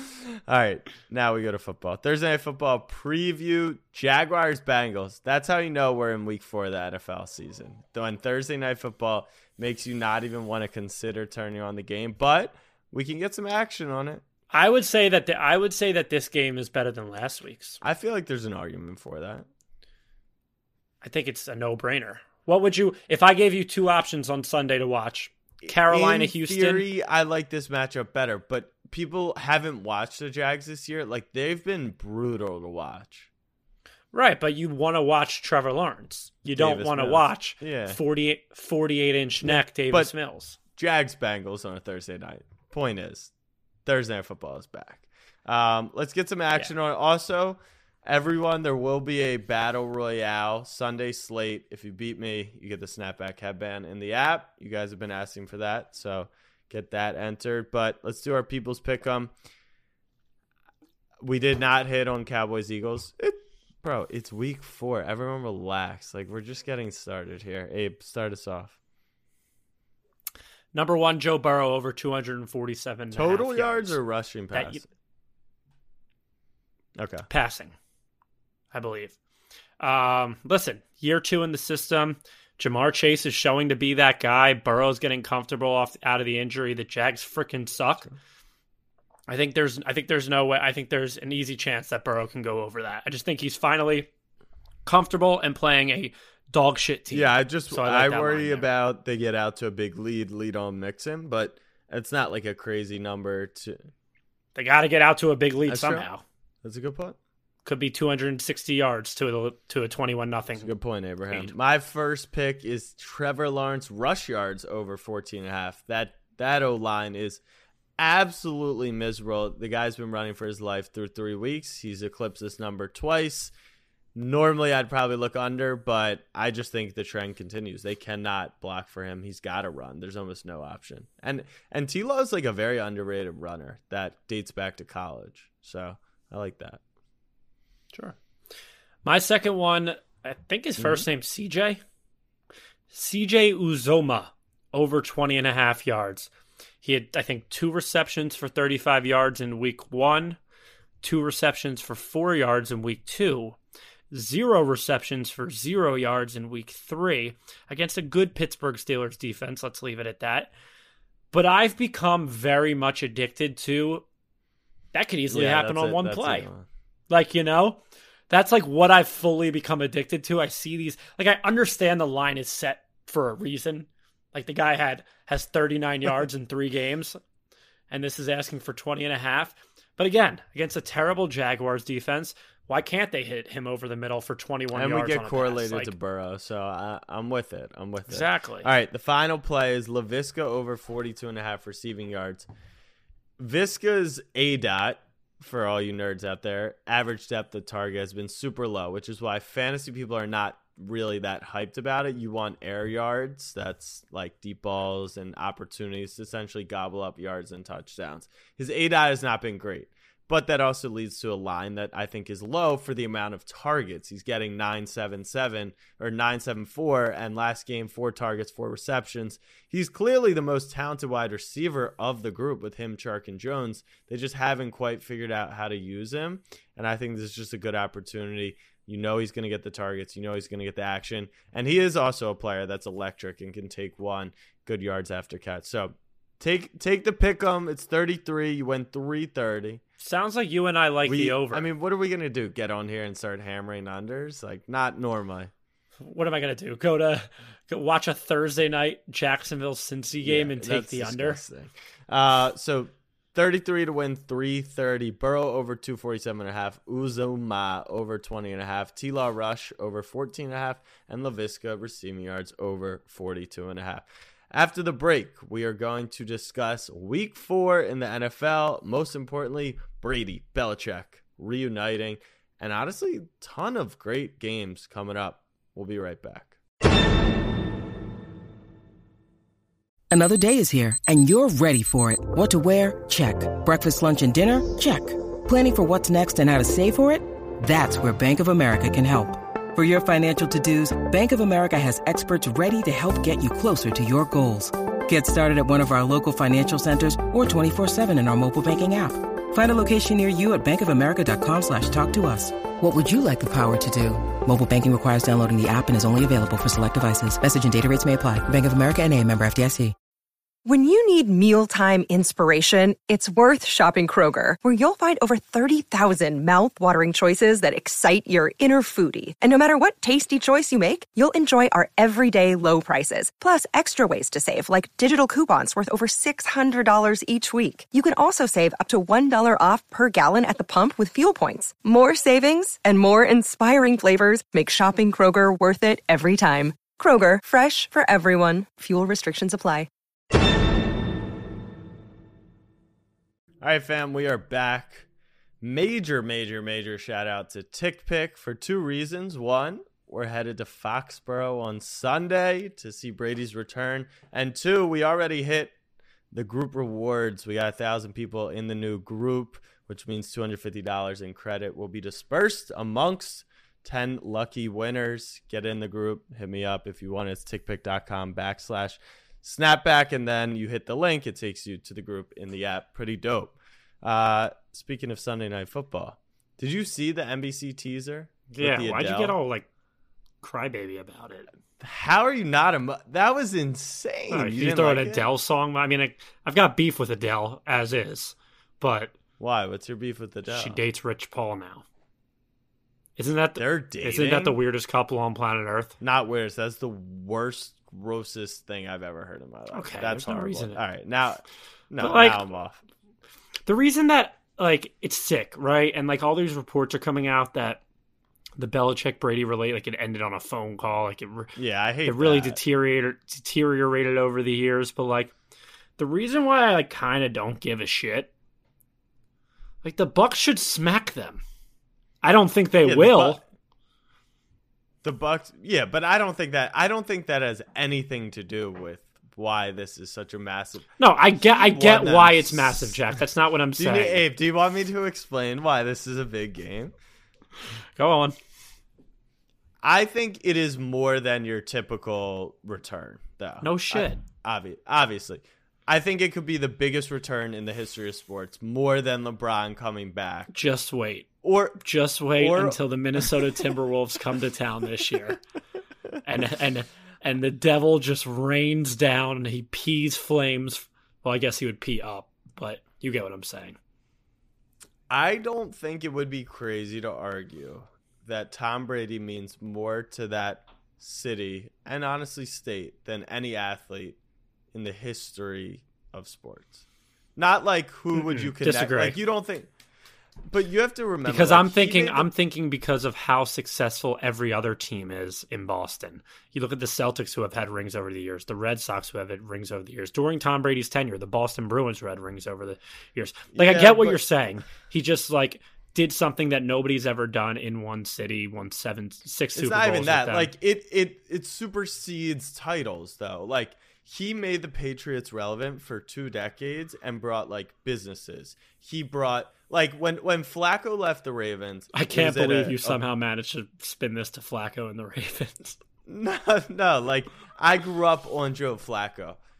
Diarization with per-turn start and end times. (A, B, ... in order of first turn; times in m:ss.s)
0:00.5-0:14.2 A
0:14.5-0:17.8 B
0:17.8-0:19.4 A
0:21.0-0:26.8 B
0:25.6-0:33.3 A
0:34.1-0:40.6 B
0:36.5-0:38.0 A
0:40.8-0:43.3 A
0:43.8-0:59.3 A
1:01.2-1:08.8 A
1:10.7-1:14.0 B
1:13.1-1:14.8 A
1:14.5-1:14.8 B
1:17.0-1:17.3 A
1:17.3-1:17.7 B
1:18.7-1:19.2 B
1:19.8-1:28.1 B
1:29.3-1:34.1 B
1:34.8-1:38.7 B
1:37.1-1:43.9 A
1:44.5-1:46.2 B
1:45.6-1:46.0 A
1:46.6-1:47.2 A
1:47.6-1:50.7 B
1:50.6-1:57.4 A
1:58.0-2:03.5 A
2:04.1-2:16.8 A
2:19.0-2:21.8 B
2:20.8-2:21.0 A
2:22.9-2:26.3 B
2:26.8-2:30.4 B
2:31.0-2:33.6 B
2:34.1-2:40.5 B
2:41.3-2:44.0 B
2:44.9-2:46.5 B
2:45.3-2:46.7 A
2:47.1-2:57.2 B
2:57.9-3:05.9 B
3:04.7-3:12.4 A
3:08.1-3:08.7 B
3:13.4-3:59.8 A
4:00.0-4:01.7 B
4:01.0-4:05.5 A
4:06.0-4:11.4 B
4:10.2-4:36.6 A
4:40.1-5:09.9 C
5:10.6-5:39.9 D
5:43.6-5:45.1 A
5:45.6-5:55.7 A
5:56.3-6:19.4 A
6:18.5-6:19.7 B
6:20.4-6:21.5 B
6:21.8-6:25.2 A
6:24.3-6:29.1 B
6:29.4-6:30.8 A
6:30.5-6:31.8 B
6:33.2-6:35.9 B
6:33.6-6:34.6 A
6:36.0-6:42.8 A
6:39.7-6:40.8 B
6:42.0-6:42.4 B
6:43.6-6:47.8 B
6:48.6-6:55.3 B
6:51.6-6:52.6 A
6:56.0-6:58.3 B
6:59.8-7:01.4 B
7:02.2-7:03.4 B
7:02.8-7:03.4 A
7:05.0-7:13.0 A
7:11.0-7:14.2 B
7:13.8-7:16.9 A
7:18.0-7:18.4 B
7:19.8-7:30.5 A
7:23.6-7:24.2 B
7:30.5-7:35.4 B
7:31.4-7:31.8 A
7:32.3-7:32.8 A
7:36.2-7:43.8 B
7:45.1-7:54.2 A
7:54.7-7:56.8 A
7:57.4-7:59.7 A
7:58.1-7:59.2 B
8:00.5-8:02.3 A
8:01.2-8:20.5 B
8:13.5-8:14.2 A
8:19.6-8:33.0 A
8:31.9-8:35.8 B
8:36.0-8:39.4 A